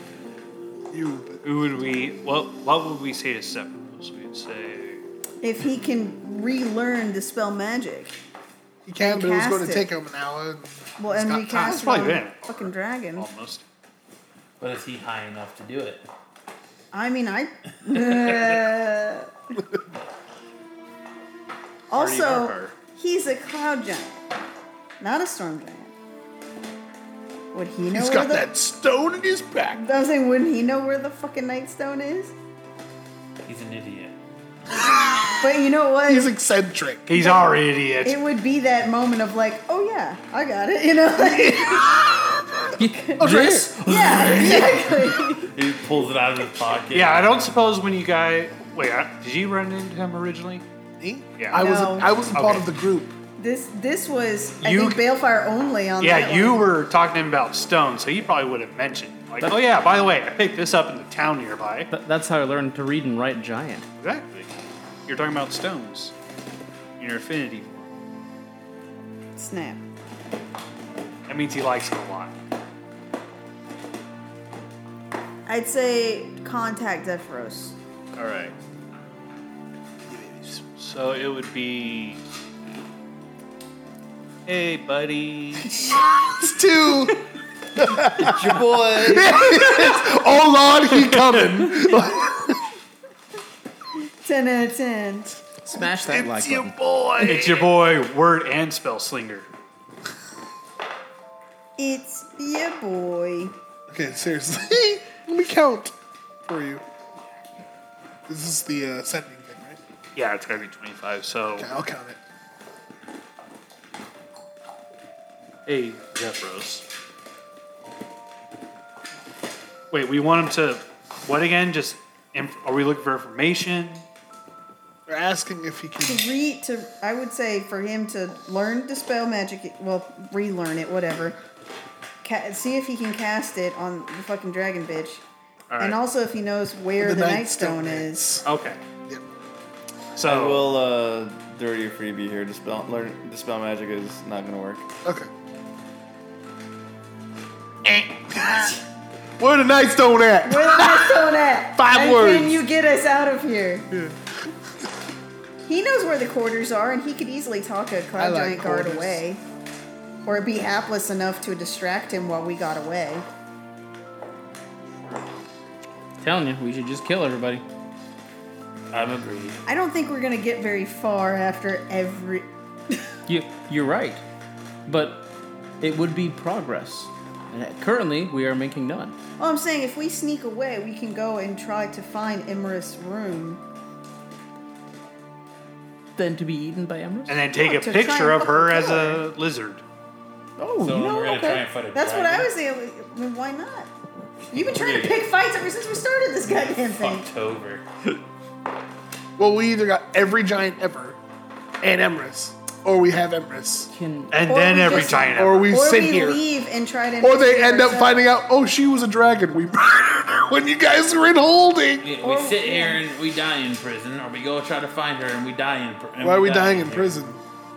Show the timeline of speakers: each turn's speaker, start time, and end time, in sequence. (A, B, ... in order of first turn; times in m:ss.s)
0:00.9-0:01.4 A
0:01.4-0:05.0 B
0:05.4-0:08.2 C
0:08.9-0:11.6 A
0:09.0-0:09.9 C
0:11.0-0:13.3 C
0:11.5-0:12.6 B
0:13.2-0:13.6 B
0:14.6-0:16.0 D
0:16.9-0:19.3 C
0:21.9-0:24.2 C
0:21.9-0:22.8 B
0:25.0-0:25.9 C
0:27.5-0:28.5 C
0:27.9-0:29.8 A
0:29.8-0:32.4 C
0:33.4-0:34.1 D
0:35.4-0:36.4 C
0:36.1-0:37.1 A
0:37.1-0:38.2 B
0:37.2-0:42.0 C
0:41.2-0:42.1 A
0:42.8-0:44.7 E
0:42.8-0:45.5 C
0:43.2-0:44.8 A
0:45.4-0:47.4 D
0:46.9-0:50.6 B
0:51.0-0:53.1 A
0:51.4-0:51.7 B
0:51.6-0:52.3 C
0:52.3-0:52.7 B
0:53.4-0:56.7 C
0:54.6-0:55.0 B
0:56.0-1:01.9 B
1:01.9-1:03.8 E
1:04.0-1:04.5 B
1:05.1-1:06.1 B
1:07.0-1:07.9 B
1:09.4-1:09.8 C
1:11.3-1:12.4 B
1:15.5-1:17.8 C
1:18.1-1:18.6 B
1:20.1-1:20.6 A
1:20.5-1:22.2 B
1:24.5-1:25.8 B
1:25.7-1:27.2 A
1:27.8-1:32.6 A
1:28.1-1:29.5 F
1:31.1-1:31.6 B
1:34.2-1:35.4 C
1:35.7-1:36.8 E
1:35.7-1:37.7 A
1:37.2-1:39.5 B
1:41.8-1:43.6 C
1:43.9-1:45.9 A
1:46.5-1:46.8 A
1:48.3-1:49.8 A
1:50.2-1:51.7 B
1:51.6-1:52.2 A
1:55.7-1:56.8 B
1:59.9-2:04.0 B
2:05.1-2:06.3 A
2:06.0-2:11.4 C
2:12.2-2:15.2 C
2:15.7-2:16.0 B
2:15.8-2:18.4 C
2:17.0-2:18.4 A
2:18.4-2:18.8 B
2:20.1-2:20.7 B
2:20.2-2:24.8 F
2:27.8-2:28.8 A
2:29.4-2:32.6 A
2:30.4-2:33.9 C
2:33.9-2:34.2 A
2:35.6-2:39.4 C
2:38.2-2:39.2 A
2:40.2-2:43.3 C
2:46.2-2:47.6 E
2:48.9-2:49.6 D
2:49.7-2:53.0 C
2:53.3-2:54.2 E
2:54.9-2:55.3 E
2:55.8-2:59.2 E
2:59.4-3:03.6 C
3:06.2-3:07.4 E
3:07.3-3:09.8 B
3:07.5-3:09.2 C
3:10.6-3:11.3 E
3:10.8-3:12.5 D
3:11.1-3:13.9 C
3:14.5-3:15.2 D
3:14.5-3:17.3 C
3:16.4-3:17.9 D
3:19.4-3:21.2 A
3:21.8-3:23.9 A
3:23.9-3:24.4 E
3:24.3-3:25.8 B
3:24.5-3:28.3 C
3:25.4-3:26.4 A
3:27.2-3:32.1 A
3:32.0-3:37.2 D
3:32.2-3:33.0 C
3:36.2-3:37.4 A